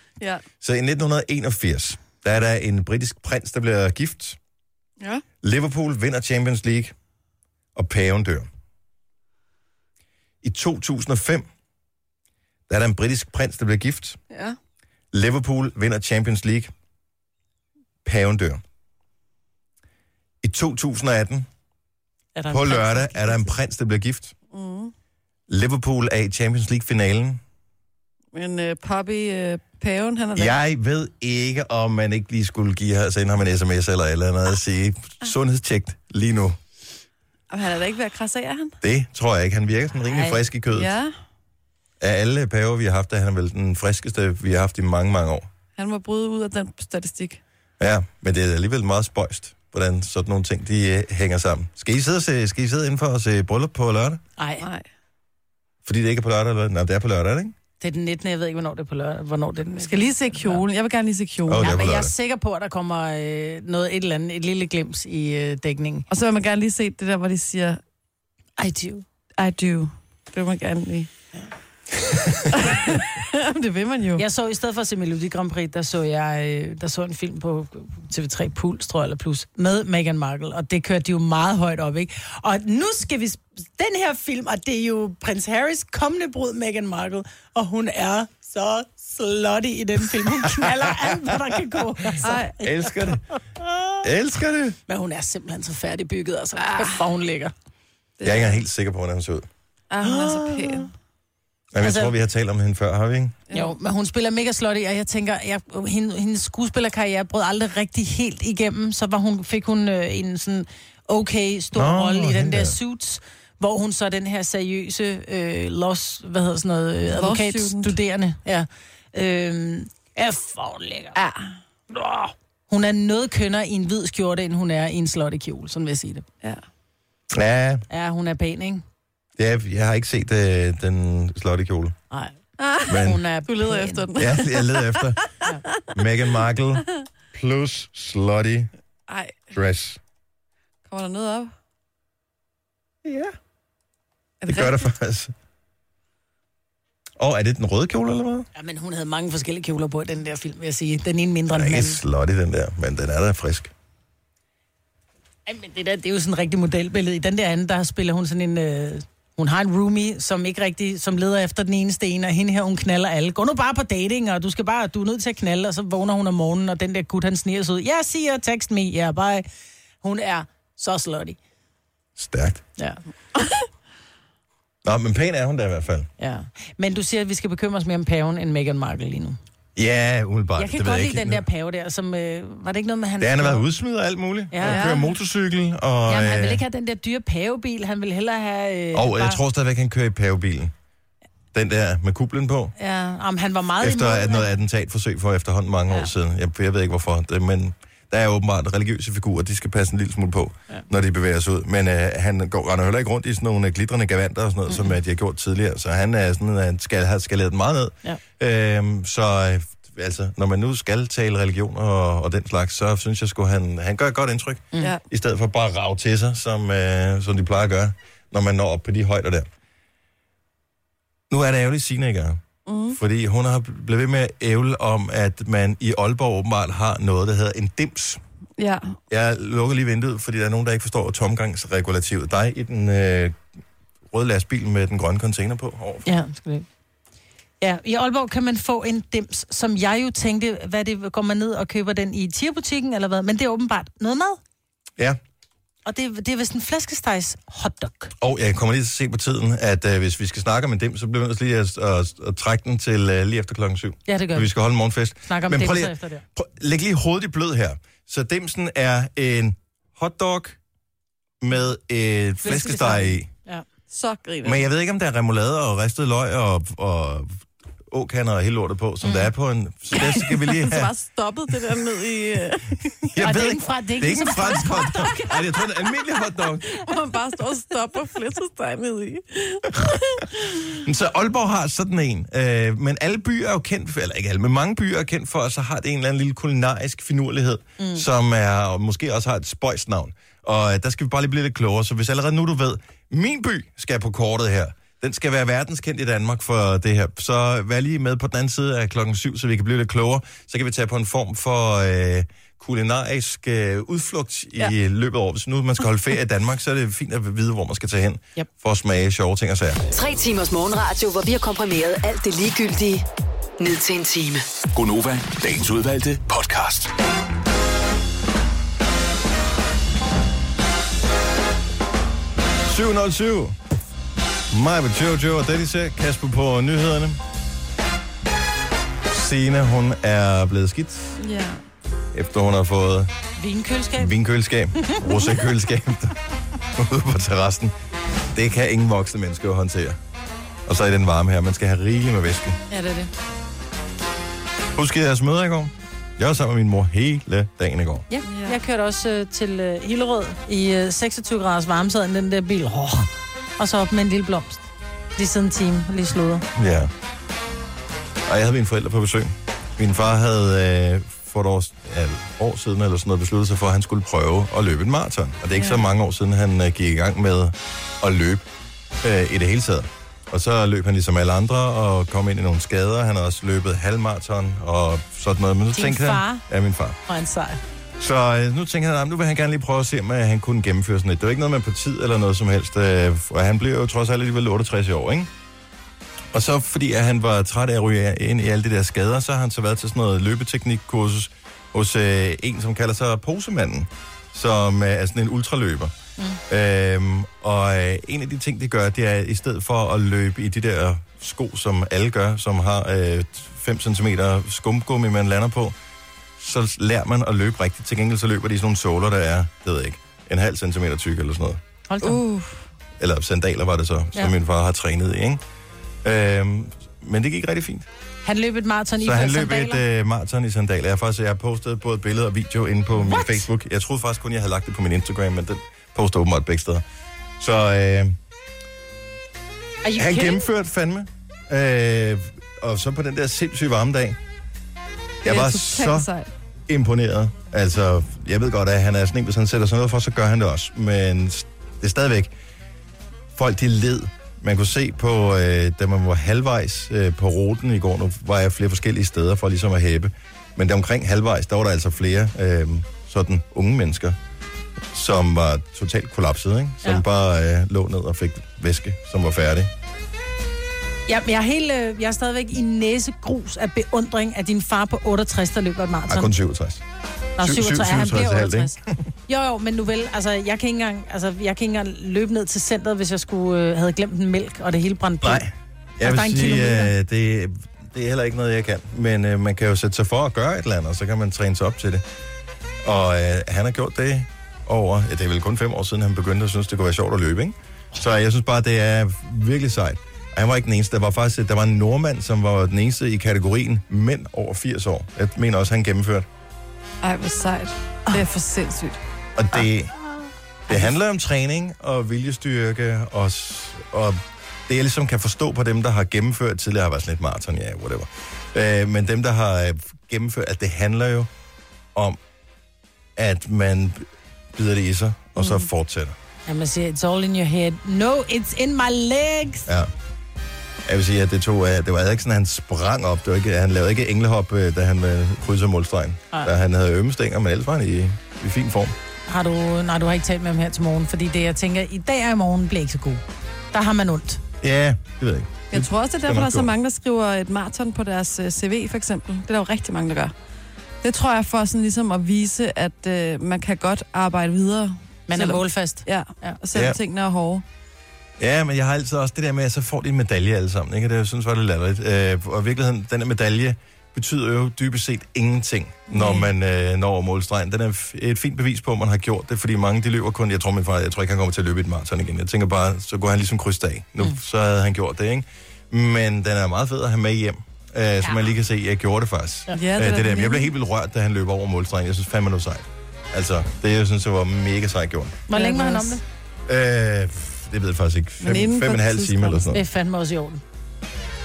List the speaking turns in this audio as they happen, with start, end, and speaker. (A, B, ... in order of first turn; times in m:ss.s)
0:00.6-0:04.4 A
0:05.4-0:06.9 A
0:07.8-0:08.5 A
0:10.4-0:11.5 A
0:12.7-0:14.2 A
0:14.3-0:14.6 B
0:15.1-0:16.7 A
0:18.0-0:18.6 A
0:20.4-0:21.5 A
0:22.4-0:23.5 C
0:22.5-0:24.4 A
0:24.5-0:24.9 B
0:25.5-0:27.4 A
0:28.3-0:30.5 B
0:30.4-0:36.6 A
0:37.5-0:38.8 B
0:38.8-0:41.0 A
0:40.1-0:40.4 C
0:40.7-0:41.1 B
0:42.0-0:45.5 A
0:45.8-0:47.4 B
0:47.8-0:54.2 A
0:54.4-0:54.7 C
0:54.6-0:54.8 B
0:55.8-0:57.6 A
0:57.8-1:00.6 C
0:59.7-1:01.7 B
1:01.5-1:02.1 A
1:01.6-1:06.0 C
1:06.1-1:07.8 B
1:08.6-1:09.0 C
1:09.4-1:11.1 B
1:12.5-1:14.2 B
1:14.2-1:34.0 C
1:30.4-1:31.3 A
1:32.2-1:32.6 B
1:32.6-1:33.2 A
1:34.0-1:34.8 A
1:34.9-1:37.5 C
1:36.6-1:37.0 B
1:38.2-1:38.6 B
1:38.2-1:39.5 A
1:39.9-1:40.9 B
1:40.0-1:40.8 C
1:41.7-1:43.4 A
1:41.8-1:42.1 C
1:43.5-1:43.8 B
1:43.5-2:01.2 C
1:51.8-1:52.8 A
1:57.1-1:58.0 B
2:01.2-2:01.6 B
2:01.9-2:06.2 C
2:07.3-2:07.8 A
2:07.9-2:08.8 C
2:09.4-2:12.0 A
2:12.1-2:12.4 C
2:12.6-2:15.3 B
2:12.9-2:13.2 A
2:12.9-2:14.0 C
2:14.2-2:15.2 A
2:15.9-2:18.7 A
2:19.1-2:19.5 B
2:19.5-2:20.0 A
2:20.9-2:21.5 B
2:23.0-2:23.4 A
2:24.4-2:24.9 B
2:24.5-2:25.3 A
2:27.2-2:28.5 A
2:28.6-2:32.0 C
2:31.5-2:33.7 A
2:35.5-2:49.5 C
2:50.0-2:51.4 C
2:52.2-2:52.6 A
2:54.8-2:56.1 A
2:56.2-2:59.4 C
2:59.8-3:01.4 A
3:00.6-3:03.6 C
3:03.2-3:06.6 A
3:04.5-3:04.9 C
3:04.6-3:05.1 B
3:06.1-3:09.4 C
3:08.9-3:10.7 A
3:11.5-3:12.8 A
3:12.8-3:14.5 C
3:13.8-3:39.5 A
3:24.7-3:25.0 C
3:41.3-3:48.2 A
3:42.7-3:43.0 B
3:48.6-3:49.0 B
3:49.1-3:53.4 A
3:54.1-3:56.1 A
3:56.0-3:56.7 C
3:57.6-4:04.4 C
4:05.9-4:08.1 C
4:08.2-4:20.6 A
4:14.1-4:14.5 C
4:15.3-4:16.2 C
4:21.4-4:23.3 A
4:22.4-4:23.6 C
4:22.6-4:23.0 B
4:23.9-4:24.6 B
4:24.4-4:30.9 A
4:29.0-4:29.3 C
4:30.1-4:32.9 B
4:33.0-4:36.7 A
4:33.2-4:35.9 C
4:36.8-4:40.8 B
4:40.8-5:09.8 A
4:47.8-4:48.1 C
5:09.9-5:13.1 D
5:13.6-5:14.4 D
5:14.7-5:16.9 E
5:22.6-5:23.6 A
5:24.5-5:27.2 A
5:29.1-5:31.2 A
5:31.2-5:31.6 B
5:32.1-5:33.1 A
5:33.4-5:34.2 C
5:34.0-5:36.2 A
5:34.8-5:35.2 C
5:36.8-5:37.7 A
5:38.3-5:40.0 A
5:40.7-5:42.6 A
5:42.7-5:43.1 C
5:44.8-5:48.1 A
5:48.1-5:56.4 C
5:48.3-5:48.6 B
5:56.6-5:56.9 A
5:58.3-6:08.4 A
6:09.0-6:17.0 A
6:15.7-6:16.4 C
6:17.1-6:17.6 C
6:18.0-6:25.3 A
6:26.3-6:35.9 A
6:36.5-6:45.8 A
6:46.4-6:51.6 A
6:51.9-6:52.2 C
6:52.0-6:52.6 B
6:53.0-6:55.4 A
6:56.0-6:57.9 A
6:58.2-6:59.8 C
6:59.0-7:06.8 A
7:03.0-7:03.5 C
7:07.4-7:08.2 A
7:09.8-7:10.4 C
7:10.0-7:14.2 A
7:15.2-7:16.1 A
7:15.2-7:16.3 B
7:16.7-7:22.3 A
7:23.3-7:34.2 A
7:34.9-7:39.7 A
7:41.1-7:46.3 C
7:46.1-7:46.8 A
7:47.4-7:55.4 C
7:47.4-7:48.8 A
7:55.2-8:02.0 A
7:56.0-7:56.9 C
8:02.8-8:16.3 A
8:17.0-8:19.0 B
8:19.4-8:19.9 A
8:20.7-8:31.3 A
8:20.7-8:21.0 C
8:33.2-8:36.2 A
8:35.4-8:35.6 B
8:36.5-8:39.7 C
8:40.9-8:49.0 A
8:49.3-8:54.4 C
8:54.6-8:56.7 A
8:55.7-9:00.3 B
9:01.0-9:07.6 B
9:05.3-9:06.6 C
9:06.7-9:07.0 A
9:08.4-9:35.5 A
9:16.2-9:16.5 C
9:29.7-9:30.7 B
9:35.5-9:36.2 C
9:35.5-9:36.2 B
9:36.7-9:39.8 A
9:38.4-9:39.7 B
9:39.7-9:40.6 C